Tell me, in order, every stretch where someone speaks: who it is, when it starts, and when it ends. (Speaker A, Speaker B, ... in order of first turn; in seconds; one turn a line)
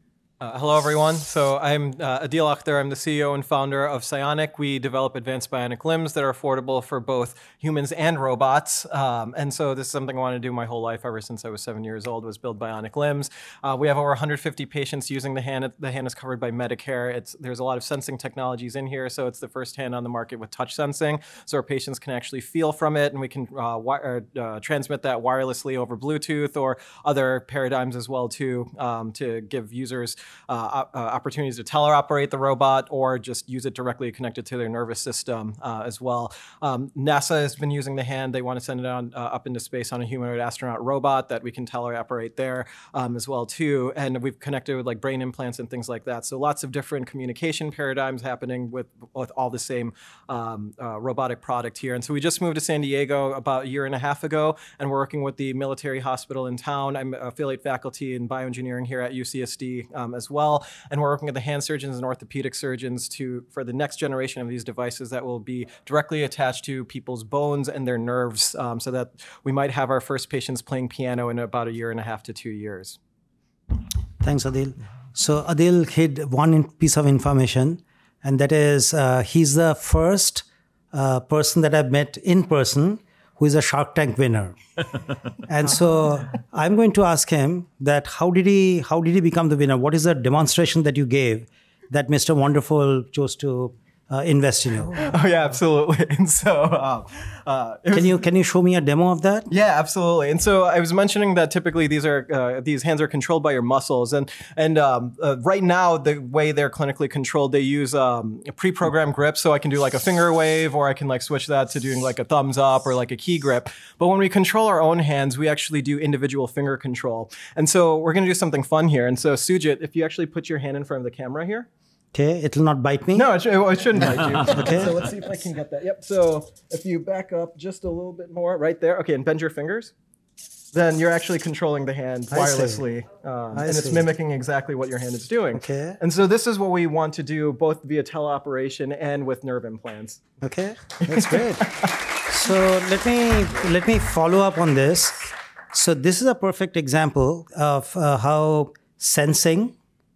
Speaker A: 0.4-73.0
Speaker B: 74.2-84.6
Speaker B: 85.5-95.0
Speaker A: 95.0-98.2
Speaker B: 97.9-99.5
Speaker A: 99.5-121.7
Speaker B: 122.1-123.3
Speaker A: 123.1-129.9
Speaker B: 124.5-124.9
Speaker A: 130.7-140.2
Speaker B: 132.3-132.8
Speaker B: 133.5-134.1
Speaker B: 135.5-136.0
Speaker B: 140.4-149.7
Speaker A: 141.0-141.9